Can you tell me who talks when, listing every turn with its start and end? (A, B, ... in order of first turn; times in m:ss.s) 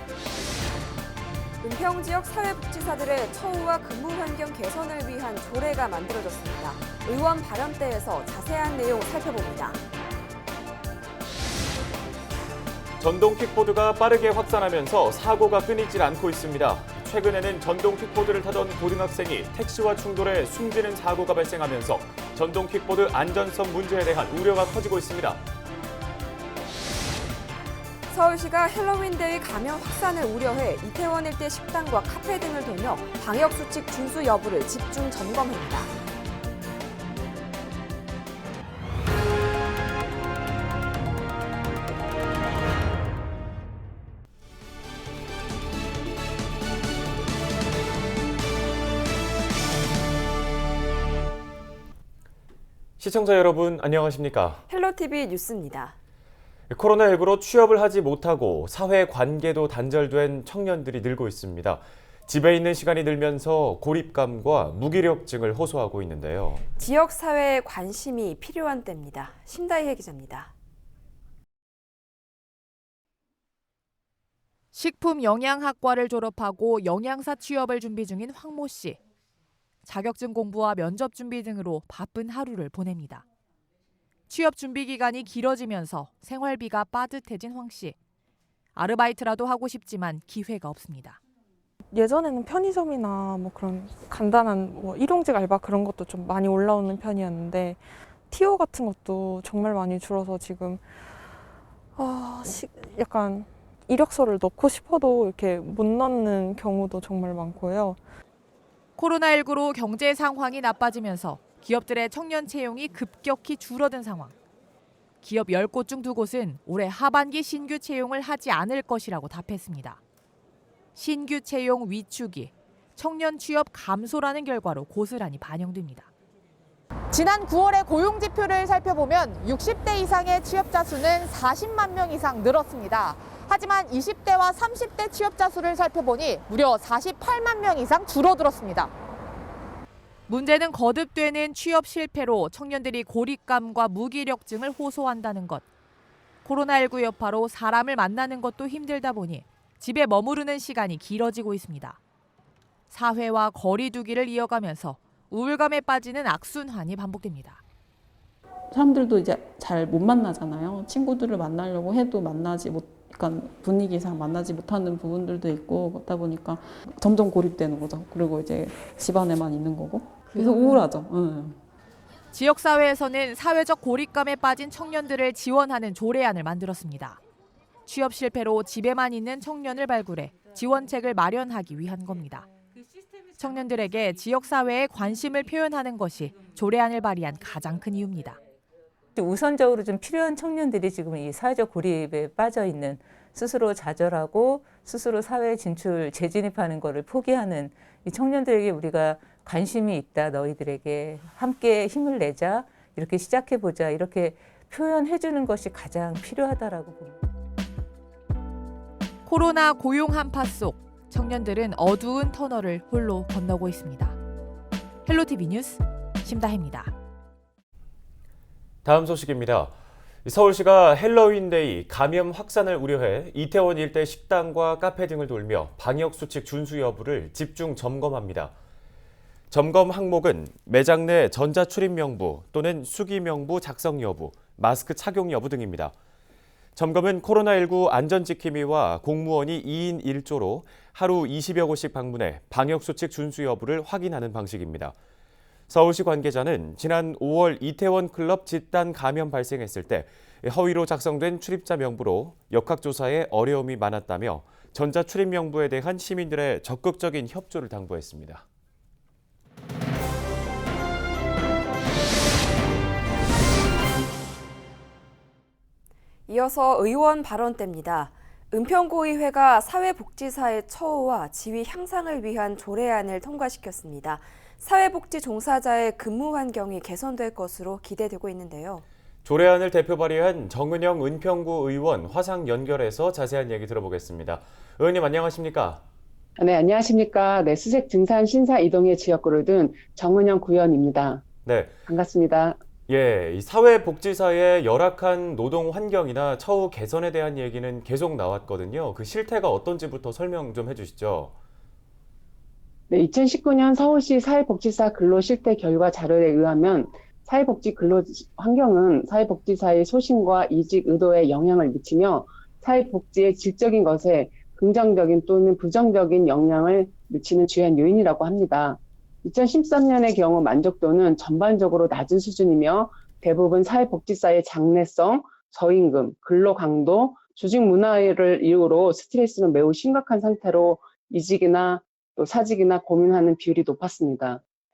0:01.6-0:09.8 A
0:13.0-0:25.4 B
0:28.1-0:35.9 A
0:53.0-0:54.6 B
0:54.7-0:55.9 A
0:56.7-1:06.6 B
1:06.8-1:10.5 A
1:14.7-1:19.0 C
1:19.8-1:23.2 C
1:24.3-1:28.0 C
1:28.7-1:31.2 C
1:31.9-1:37.8 D
1:38.3-1:40.8 D
1:42.0-1:48.0 D
1:49.0-1:54.3 C
1:55.2-2:00.0 C
2:00.9-2:06.1 C
2:07.1-2:18.9 E
2:20.3-2:25.6 C
2:26.4-2:32.0 C
2:32.9-2:37.6 C
2:38.7-2:51.6 F
2:52.3-2:57.2 C
2:57.8-3:02.5 C
3:03.4-3:08.4 C
3:09.2-3:27.2 G
3:29.2-3:34.2 C
3:35.0-3:36.9 C
3:38.8-3:48.5 B
3:49.5-3:55.9 B
3:56.7-4:04.9 B
4:05.7-4:18.4 B
4:26.3-4:38.8 A
4:39.2-4:45.8 B
4:46.4-4:51.2 H
4:51.4-4:51.8 B
4:51.9-4:52.6 H
4:52.9-5:01.3 B
5:02.9-5:34.4 H